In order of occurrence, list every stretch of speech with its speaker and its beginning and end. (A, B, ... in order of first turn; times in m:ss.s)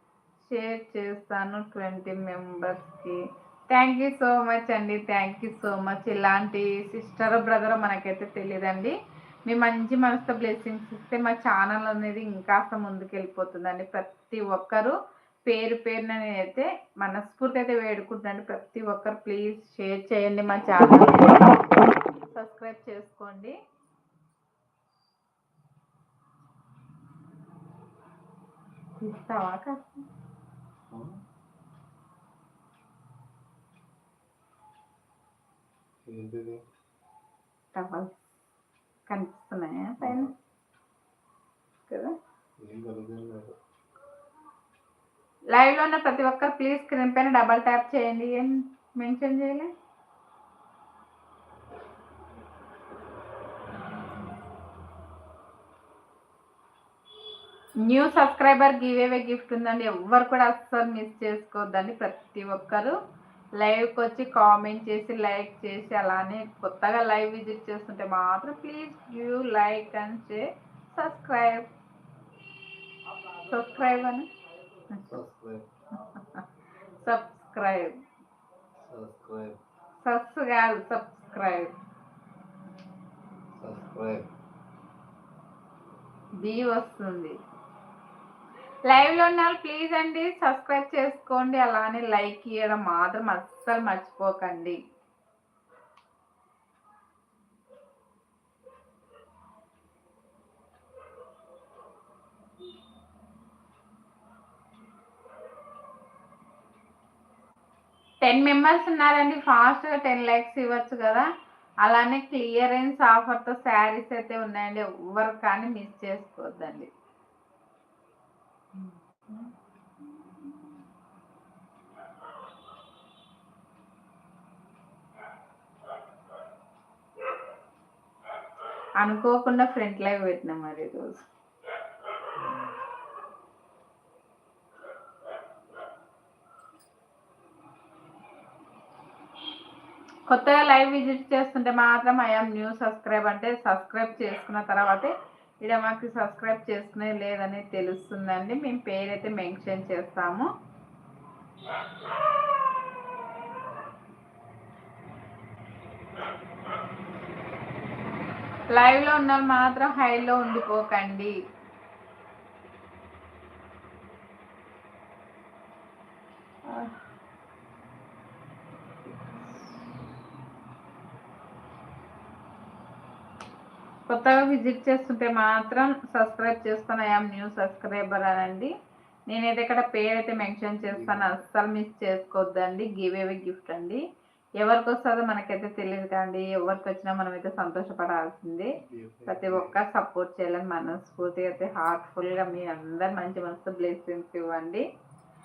0:00.4-0:09.0 A
0:09.5-0:23.6 A
0:29.0-0:30.0 A
0:30.9-0:31.2 B
0:36.1-0:36.6 B
0:37.7-0:38.2 A
0:39.1-0:40.3 A
0:40.0-0:40.3 B
0:41.9-0:42.2 A
0:42.6-0:43.5 B
0:45.5-0:49.7 A
0:57.8-1:03.0 A
1:03.6-1:11.7 A
1:13.4-1:14.3 A
1:15.0-1:15.6 B
1:16.0-1:16.4 A
1:17.0-1:18.0 A
1:18.8-1:19.6 B
1:20.0-1:21.8 A
1:23.6-1:24.3 B
1:26.4-1:27.4 A
1:28.9-1:34.8 A
1:48.2-1:51.3 A
1:51.8-1:56.9 A
1:58.8-1:59.5 A
2:00.2-2:00.5 A
2:09.0-2:11.3 A
2:12.4-2:12.7 B
2:20.3-2:30.5 A
2:38.7-2:41.3 A
2:46.7-2:47.0 A
2:54.1-2:58.7 A
2:59.3-3:04.0 A
3:00.9-3:01.4 B
3:04.6-3:08.7 A
3:08.8-3:09.8 B
3:09.3-3:14.8 A